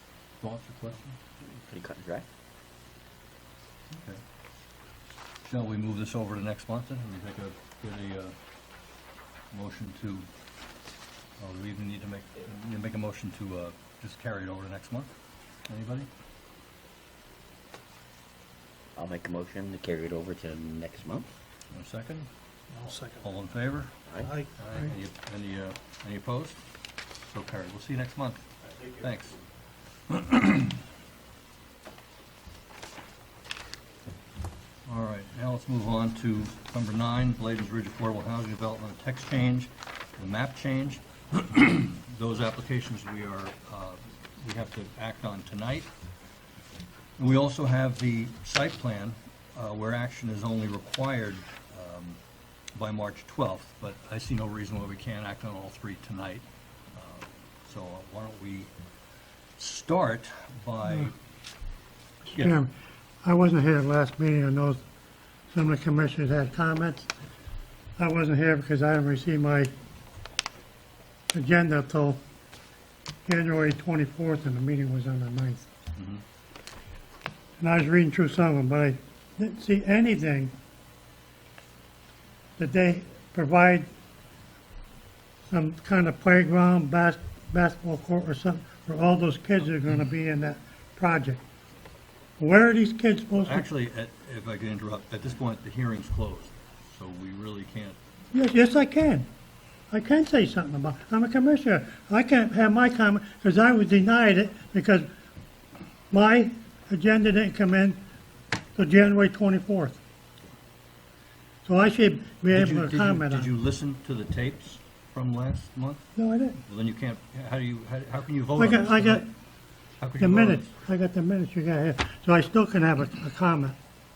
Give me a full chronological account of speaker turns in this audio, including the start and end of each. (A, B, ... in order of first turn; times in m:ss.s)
0:00.4-0:01.2 A
0:01.4-0:02.2 B
0:03.9-0:04.2 A
0:05.4-0:08.3 A
0:09.5-0:10.3 A
0:11.4-0:15.1 A
0:15.7-0:16.1 A
0:18.9-0:21.3 B
0:21.7-0:22.3 A
0:22.8-0:23.2 C
0:23.2-0:23.9 A
0:24.1-0:24.3 B
0:24.6-0:26.6 A
0:27.2-0:28.4 A
0:29.0-0:29.4 A
0:30.1-0:30.8 A
0:34.8-0:45.9 A
0:47.2-0:52.2 A
0:52.8-0:58.7 A
0:59.6-1:01.1 A
1:02.3-1:02.6 A
1:02.3-1:02.7 C
1:03.2-1:04.8 C
1:05.5-1:07.1 C
1:08.0-1:09.7 C
1:11.3-1:12.2 C
1:13.2-1:15.7 C
1:16.0-1:16.2 A
1:17.6-1:20.5 C
1:22.6-1:23.9 C
1:25.5-1:31.4 C
1:32.4-1:33.7 C
1:33.4-1:38.0 A
1:38.3-1:39.3 C
1:39.9-1:45.1 C
1:46.1-1:48.0 C
1:48.8-1:50.0 C
1:51.6-1:53.5 C
1:52.5-1:56.0 A
1:56.2-1:56.6 C
1:56.6-1:59.2 A
1:58.6-1:59.2 C
2:00.0-2:00.7 A
2:00.2-2:03.8 C